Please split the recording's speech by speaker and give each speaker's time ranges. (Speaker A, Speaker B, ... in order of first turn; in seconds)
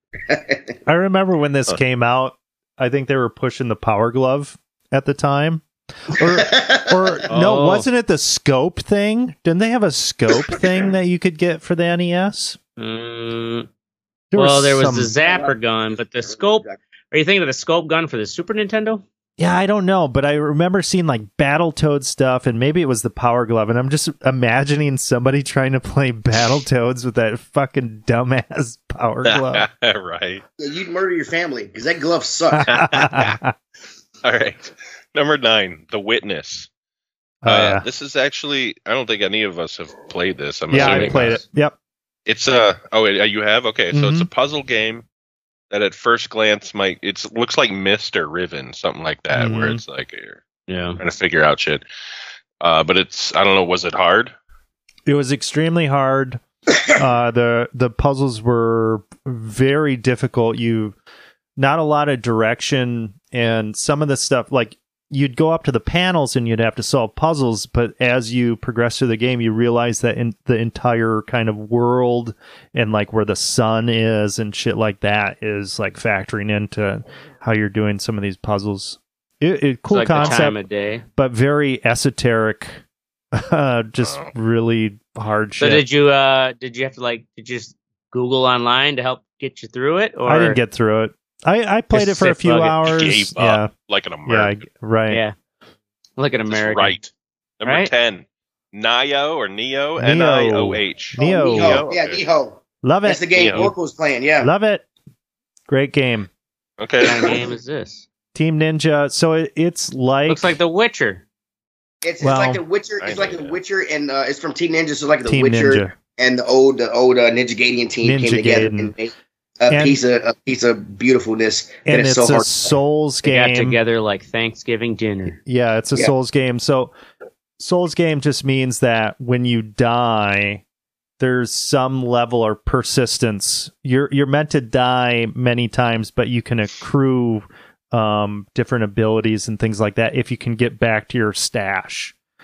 Speaker A: 0.3-0.7, 6.2-7.2, 15.2-16.8, 30.6-32.7, 101.2-104.5, 112.0-122.8
Speaker B: 0.8-12.6, 14.3-15.1, 19.4-29.6, 32.5-33.5, 37.4-37.8, 40.7-41.7, 43.9-44.3, 49.3-49.8, 55.0-61.0, 61.6-80.6, 81.2-82.8, 83.3-85.8, 90.2-93.7, 94.2-95.2, 100.0-101.8, 102.8-103.7, 104.4-104.8, 105.7-106.3, 108.3-110.5, 112.2-112.6, 115.2-115.9, 118.0-118.9, 119.7-120.0, 121.9-123.8, 125.5-126.9, 127.6-130.6, 131.2-142.1
Speaker C: 7.3-7.9, 12.8-13.7, 14.3-19.0, 40.8-41.4, 50.7-51.0, 79.9-81.0, 85.6-90.6, 91.9-92.8, 95.1-95.3, 96.2-96.9, 97.7-97.9, 107.0-108.0, 110.3-111.2, 123.2-125.4
Speaker D: 29.2-30.4, 32.7-33.4, 34.2-36.7, 37.5-41.4, 42.2-45.0, 45.7-50.4, 51.0-51.8, 52.6-54.3, 80.2-80.4, 84.0-84.3, 92.8-94.6, 96.5-102.2, 103.3-103.7, 106.8-107.4, 113.0-113.5